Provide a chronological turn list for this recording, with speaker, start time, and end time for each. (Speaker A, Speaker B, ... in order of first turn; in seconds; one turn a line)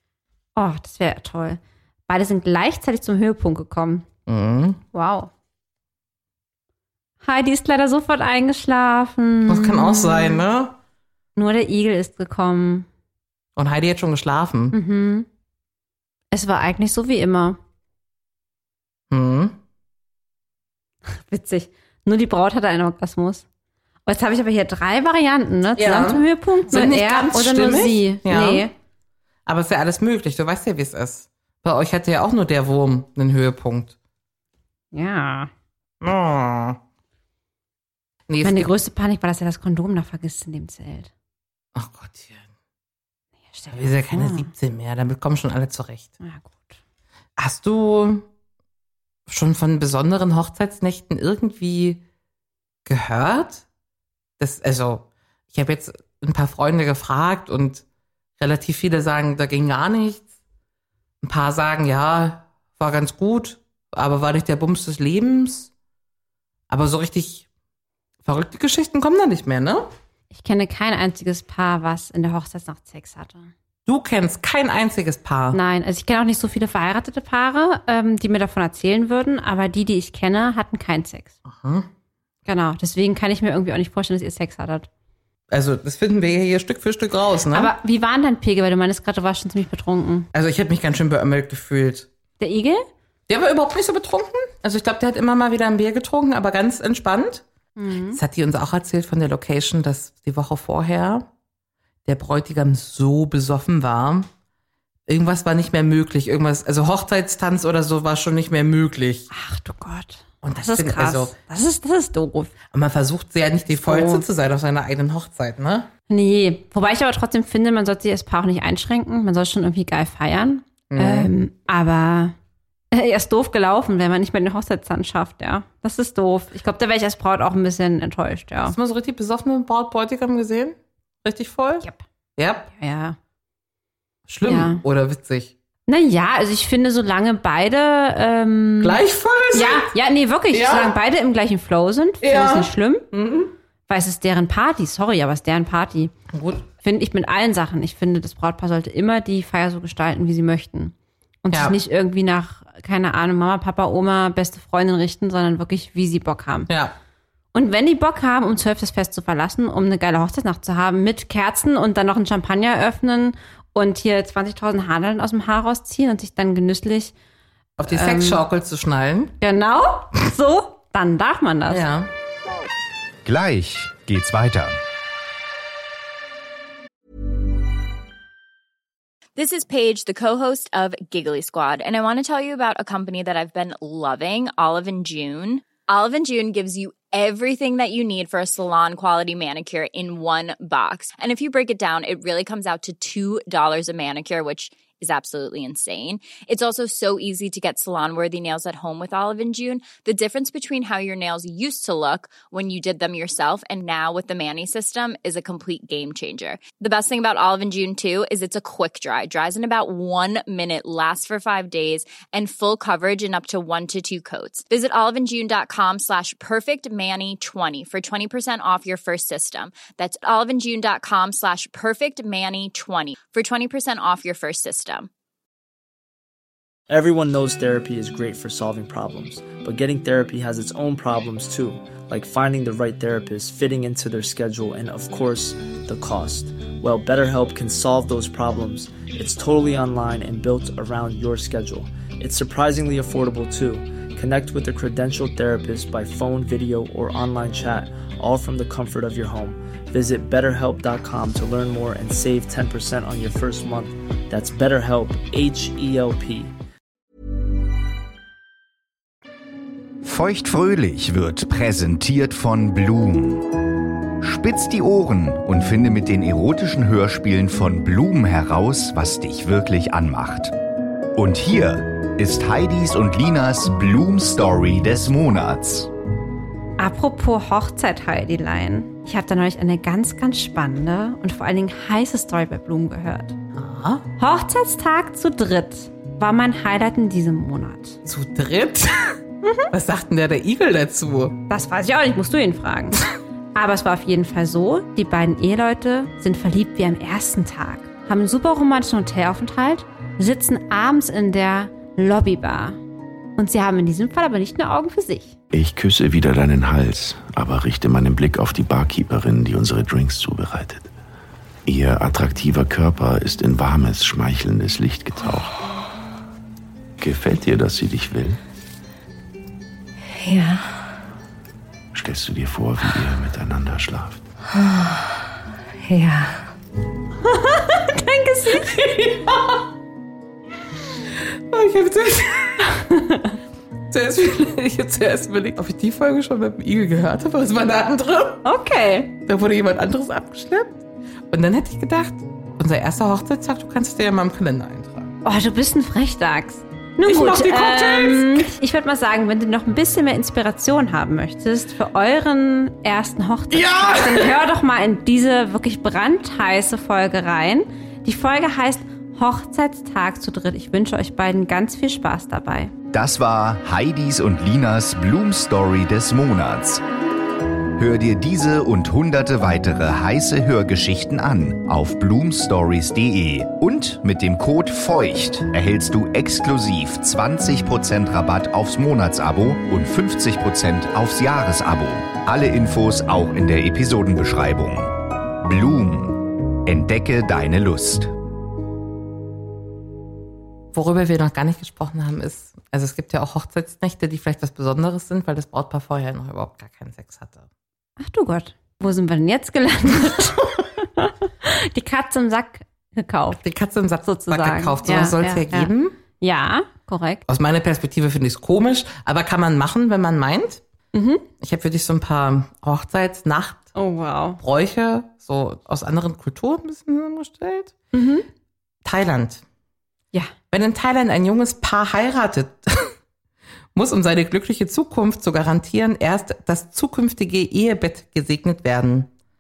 Speaker A: 0.6-4.1
Speaker B: 4.3-4.8
Speaker A: 4.9-5.3
Speaker A: 7.2-10.4
Speaker B: 9.5-10.8
Speaker A: 11.4-12.9
Speaker B: 13.6-14.8
Speaker A: 14.7-15.3
Speaker A: 16.3-17.6
Speaker B: 19.1-19.6
Speaker A: 21.1-23.4
Speaker A: 24.1-28.7
Speaker B: 25.8-28.7
Speaker B: 29.5-34.0
Speaker A: 34.9-35.5
Speaker B: 36.0-36.8
Speaker B: 38.3-38.7
Speaker A: 38.4-41.1
Speaker B: 41.8-42.5
Speaker A: 43.5-44.5
Speaker B: 43.7-46.1
Speaker A: 46.2-46.8
Speaker B: 47.4-48.3
Speaker B: 49.3-52.0
Speaker B: 52.9-53.6
Speaker B: 54.4-57.9
Speaker B: 58.4-60.3
Speaker B: 61.2-65.7
Speaker B: 66.7-67.5
Speaker B: 68.2-69.9
Speaker A: 70.3-73.5
Speaker B: 73.9-75.6
Speaker A: 75.5-81.3
Speaker B: 81.5-81.9
Speaker A: 82.5-84.9
Speaker B: 85.5-87.7
Speaker A: 87.5-90.3
Speaker B: 90.3-92.1
Speaker A: 92.4-92.8
Speaker B: 93.3-97.5
Speaker A: 97.8-98.2
Speaker B: 98.1-101.3
Speaker B: 102.0-104.3
Speaker B: 105.1-109.3
Speaker A: 109.3-112.5
Speaker B: 110.4-111.4
Speaker B: 112.7-115.9
Speaker A: 113.8-114.2
Speaker A: 116.1-122.3
Speaker B: 120.9-121.3
Speaker A: 122.9-128.8
Speaker B: 128.7-131.8
Speaker B: 132.4-132.7
Speaker A: 132.7-133.2
Speaker B: 134.3-135.5
Speaker A: 134.5-134.8
Speaker A: 135.9-139.0
Speaker B: 138.8-139.9
Speaker A: 139.5-143.1
Speaker B: 140.5-140.9
Speaker B: 142.2-143.5
Speaker A: 143.9-146.1
Speaker B: 146.3-146.7
Speaker A: 146.8-156.7
Speaker B: 151.5-151.8
Speaker B: 156.7-156.9
Speaker A: 157.5-167.1
Speaker B: 167.8-169.3
Speaker A: 167.8-168.4
Speaker A: 169.4-171.9
Speaker B: 171.7-172.1
Speaker C: 173.2-174.8
Speaker D: 179.4-225.1
Speaker E: 226.9-256.5
Speaker C: 260.0-263.5
Speaker C: 264.2-270.5
Speaker C: 271.2-275.9
Speaker A: 276.8-283.4
Speaker B: 283.5-284.0
Speaker A: 284.2-288.0
Speaker B: 288.1-289.2
Speaker A: 289.4-289.7
Speaker B: 289.7-291.4
Speaker A: 291.5-293.0
Speaker A: 293.6-302.8
Speaker A: 303.4-305.4
Speaker F: 305.5-310.9
Speaker F: 311.7-315.6
Speaker F: 317.0-318.4
Speaker A: 320.2-320.6
Speaker F: 321.9-324.2
Speaker A: 325.9-326.3
Speaker A: 327.2-328.9
Speaker B: 328.7-329.6
Speaker B: 331.5-332.7
Speaker A: 332.8-333.4
Speaker B: 333.9-338.4
Speaker A: 338.4-339.1
Speaker B: 339.3-345.1
Speaker A: 345.2-362.7
Speaker B: 347.1-348.5
Speaker B: 353.5-354.4
Speaker C: 362.9-366.8
Speaker C: 367.8-388.1
Speaker B: 390.7-397.5
Speaker A: 398.0-403.4
Speaker B: 403.4-406.0
Speaker A: 404.0-407.2
Speaker B: 407.3-410.6
Speaker A: 410.9-411.3
Speaker B: 411.4-413.7
Speaker A: 413.8-414.4
Speaker B: 414.4-417.8
Speaker A: 417.9-418.3
Speaker B: 418.8-419.4
Speaker B: 420.5-422.9
Speaker B: 423.8-429.1